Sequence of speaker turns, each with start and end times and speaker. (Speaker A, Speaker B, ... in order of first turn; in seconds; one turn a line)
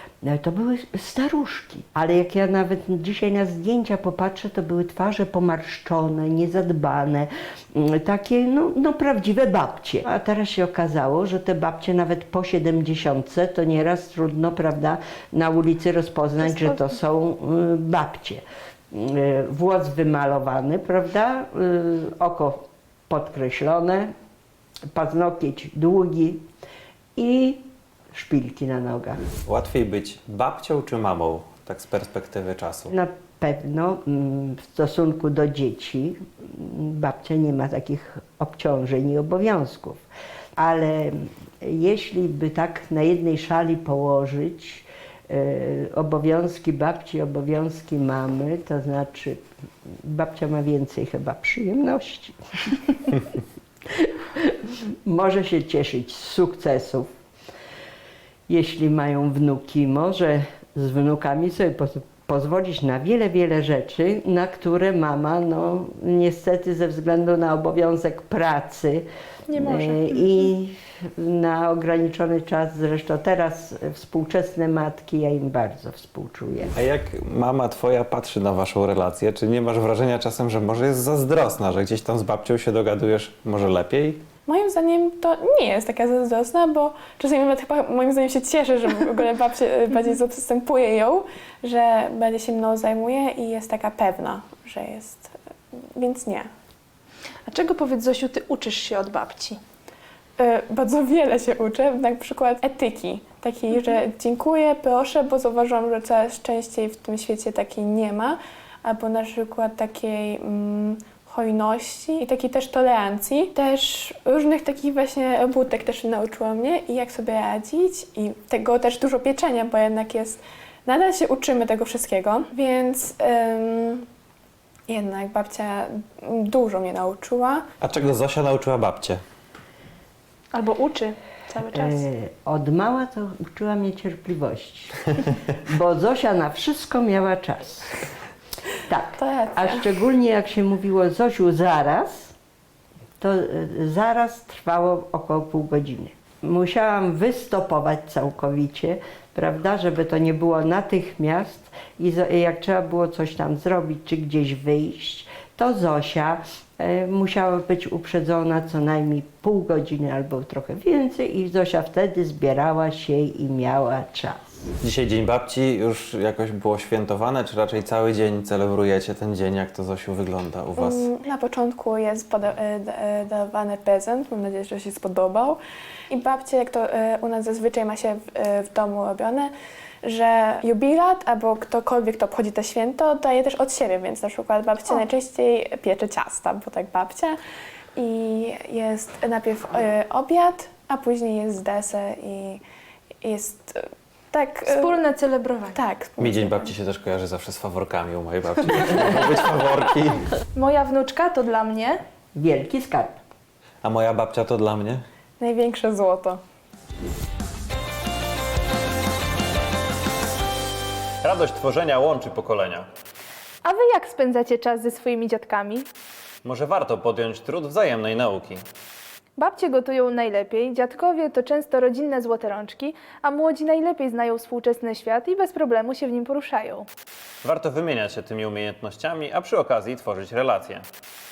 Speaker A: 0.2-24.1
Speaker B: 16.4-16.9
Speaker A: 24.9-26.4
Speaker A: 27.2-27.6
Speaker A: 28.1-29.2
Speaker C: 29.5-32.9
Speaker A: 32.9-40.0
Speaker A: 40.6-49.4
Speaker A: 50.0-53.2
Speaker A: 53.9-57.1
Speaker A: 58.5-69.1
Speaker B: 69.5-70.5
Speaker A: 69.6-76.7
Speaker C: 76.8-84.3
Speaker D: 84.5-95.3
Speaker D: 96.0-96.5
Speaker B: 97.5-99.6
Speaker D: 100.4-124.0
Speaker D: 124.9-127.7
Speaker C: 127.8-129.2
Speaker B: 130.5-132.1
Speaker A: 131.7-138.0
Speaker A: 138.9-142.3
Speaker D: 139.2-139.9
Speaker A: 143.2-164.7
Speaker C: 164.8-171.1
Speaker D: 170.8-175.6
Speaker D: 176.1-179.5
Speaker D: 180.0-187.4
Speaker D: 188.0-192.6
Speaker D: 193.2-195.0
Speaker B: 194.7-195.8
Speaker D: 195.7-196.7
Speaker C: 196.2-200.3
Speaker B: 200.5-202.0
Speaker A: 202.3-203.2
Speaker C: 203.8-205.0
Speaker D: 205.4-206.4
Speaker C: 211.2-212.9
Speaker B: 213.6-215.9
Speaker C: 216.4-218.7
Speaker B: 219.4-226.9
Speaker C: 227.4-230.8